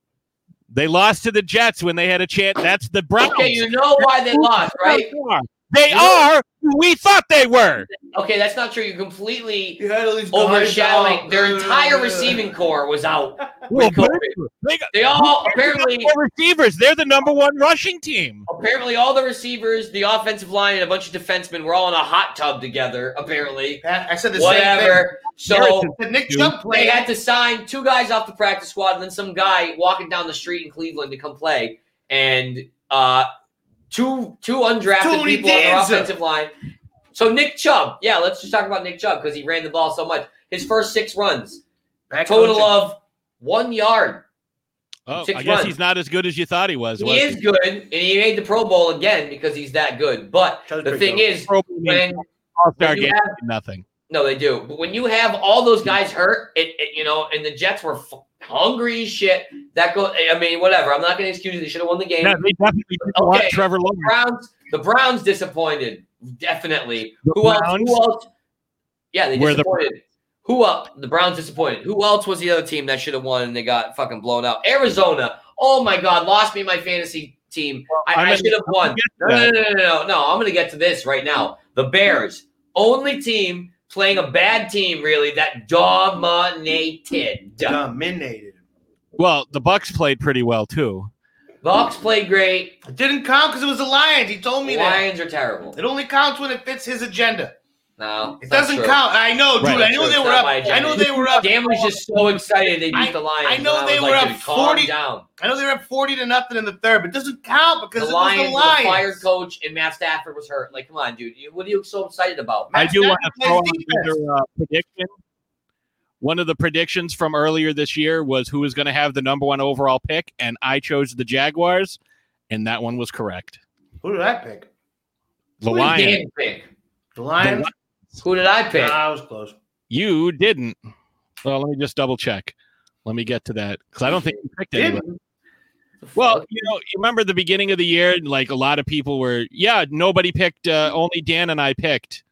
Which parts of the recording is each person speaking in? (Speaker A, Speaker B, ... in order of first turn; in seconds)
Speaker A: 0.7-7.9, 13.7-18.4, 25.5-26.5, 45.1-47.4, 51.5-53.8, 62.2-64.1, 67.2-68.0, 69.3-69.8, 78.0-79.5, 89.2-91.1, 99.6-99.9, 100.6-101.4, 112.7-115.1, 116.2-122.0, 122.5-123.6, 125.6-126.2, 127.4-128.2, 129.9-130.8, 131.4-135.0, 136.2-142.2
Speaker B: 3.2-5.1, 5.9-6.3, 8.0-9.8, 10.3-14.4, 14.9-16.1, 18.5-23.8, 24.3-25.9, 26.7-33.3, 33.9-36.5, 37.1-41.6, 42.2-44.2, 45.2-45.7, 47.0-52.2, 52.8-53.4, 54.1-62.4, 63.0-68.3, 69.1-87.8, 91.6-92.8, 94.6-95.8, 98.0-99.0, 99.6-105.2, 108.0-112.7, 125.7-126.7, 128.2-129.0, 136.0-136.4
Speaker C: 9.8-12.4, 23.8-25.2, 25.9-27.1, 35.0-36.1, 42.1-42.8, 50.7-51.2, 87.6-88.6, 92.8-95.0, 95.7-97.5, 98.4-102.0, 102.9-109.2, 112.7-114.1, 124.0-124.7, 127.2-127.7, 128.7-129.5, 134.7-135.2